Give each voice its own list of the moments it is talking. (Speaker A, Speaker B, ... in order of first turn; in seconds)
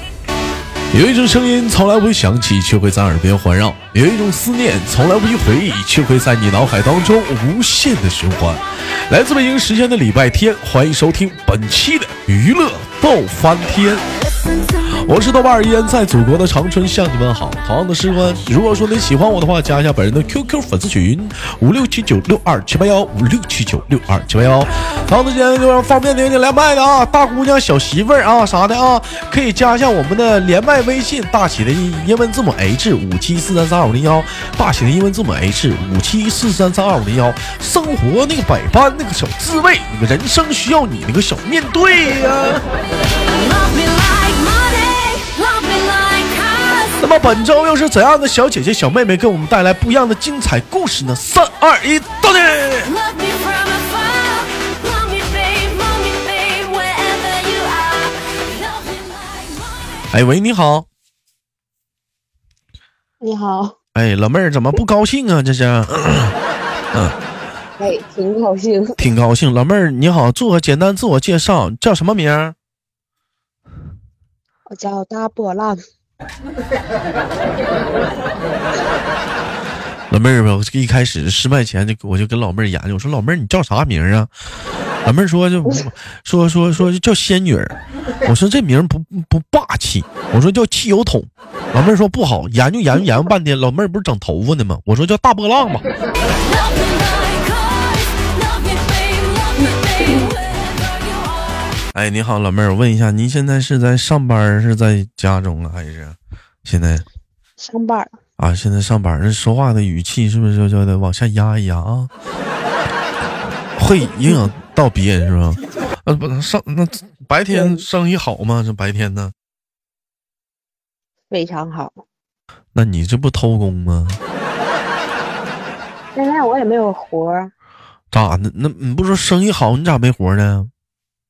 Speaker A: 0.9-14.1, 14.9-42.6, 47.0-52.9, 60.1-60.9, 63.9-66.3, 69.0-72.5, 80.1-84.3, 85.0-95.8, 101.9-107.0, 108.4-112.1, 113.7-119.3, 122.7-124.2, 128.1-130.7
Speaker B: 43.3-47.0, 52.8-60.0, 96.4-101.7
Speaker C: 63.2-63.8, 67.8-69.0, 74.7-75.8, 107.6-108.2, 117.5-117.8, 121.3-122.0, 126.1-127.5